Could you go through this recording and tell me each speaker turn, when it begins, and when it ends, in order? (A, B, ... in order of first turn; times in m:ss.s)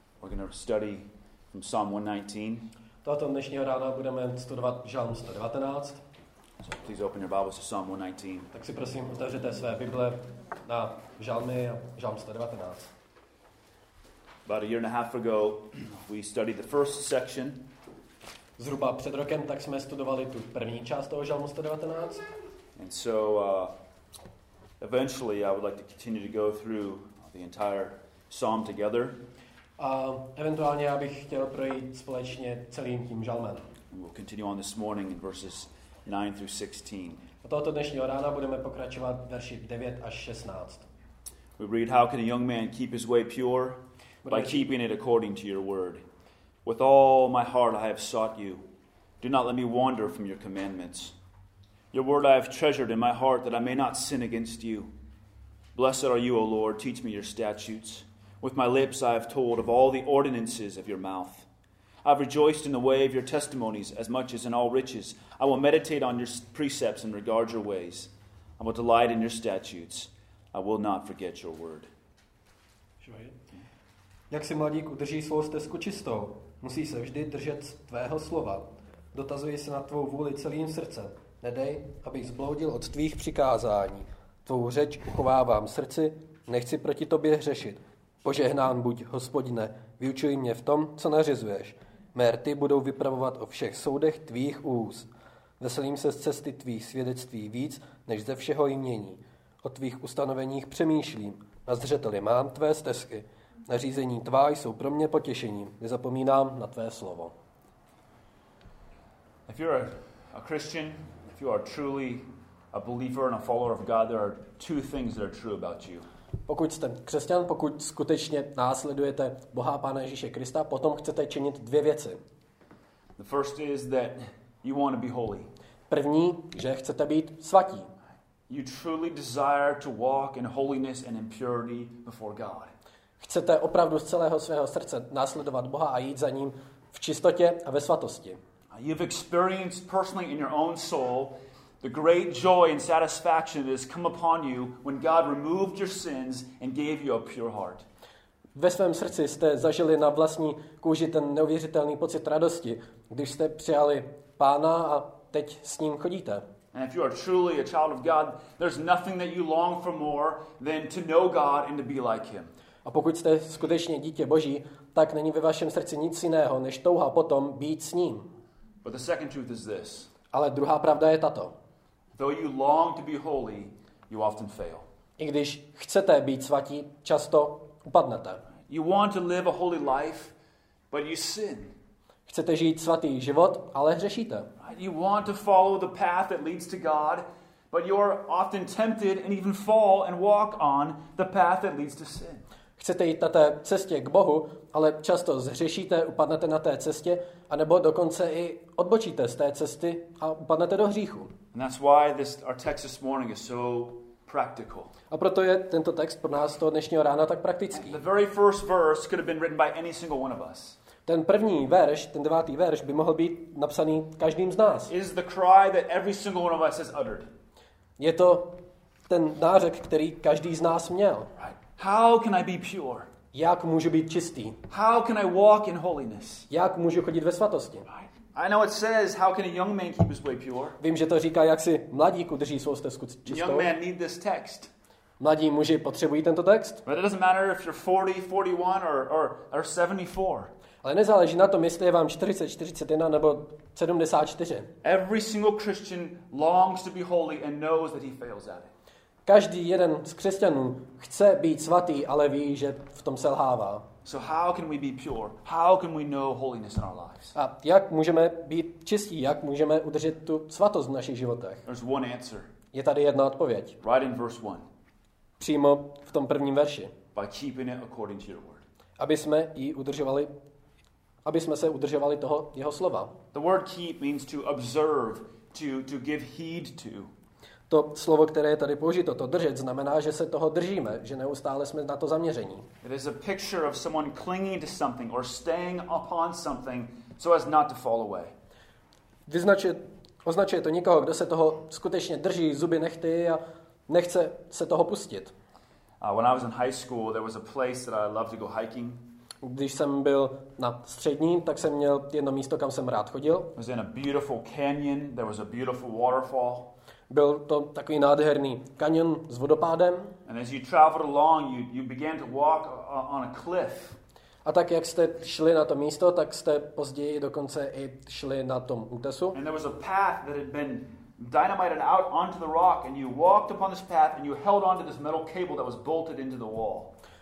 0:00.2-0:02.7 A
0:03.0-0:06.0 B
0:06.6-0:08.5 A
0:08.5-0:12.9 B
0:14.4-0:17.7 A
0:18.6-0:22.2 B
0:22.8-0:23.7 A
0:24.8-0:29.2 A
0:29.8-0:33.6 B
0:33.9-0:37.2 A
0:37.4-0:40.8 B
0:41.6-0:46.0 A
0:44.2-0:44.6 B
0:46.6-0:48.6 A
0:49.2-0:51.1 A
0:51.9-0:54.9 A
0:55.8-1:01.5 A
1:02.0-1:11.9 A
1:13.0-1:13.3 B
1:14.3-1:35.1 B
1:35.6-1:47.3 B
1:49.5-1:56.1 A
1:56.5-2:02.2 B
2:03.2-2:05.5 A
2:05.9-2:07.9 B
2:08.5-2:12.7 A
2:13.2-2:18.4 B
2:18.7-2:27.8 A
2:28.5-2:36.4 B
2:36.7-2:42.5 A
2:42.8-2:48.3 B
2:48.8-2:50.1 A
2:50.3-2:51.5 B
2:52.2-2:54.8 A
2:55.2-2:58.4 B
2:58.7-3:00.3 A
3:00.9-3:01.7 A
3:02.3-3:04.5 B
3:04.6-3:12.4 A
3:12.8-3:21.3 B
3:21.5-3:24.9 A
3:25.1-3:28.0 B
3:27.7-3:30.8 A
3:31.0-3:34.9 B
3:34.9-3:37.3 A
3:38.0-3:41.3 B
3:41.4-3:43.1 A
3:43.3-3:44.6 B
3:44.7-3:46.5 A
3:46.5-3:47.9 B
3:48.0-3:50.8 A
3:50.8-3:53.7 B
3:53.2-3:54.7 A
3:55.2-3:56.8 B
3:56.8-4:00.5 A
4:00.8-4:04.7 B
4:04.8-4:08.7 A
4:09.2-4:13.8 B
4:14.0-4:17.3 A
4:17.3-4:21.6 B
4:21.6-4:22.5 A
4:22.7-4:23.8 B
4:23.8-4:24.6 A
4:25.4-4:26.9 B
4:27.1-4:28.6 A
4:29.0-4:30.3 B
4:31.2-4:33.1 B
4:33.3-4:37.1 A
4:37.7-4:42.7 B
4:42.8-4:48.3 A
4:49.3-4:55.3 B
4:56.0-4:59.1 A
4:59.4-5:03.5 B
5:03.6-5:06.7 A
5:07.1-5:10.1 B
5:10.2-5:14.0 A
5:14.4-5:19.4 B
5:19.3-5:26.9 A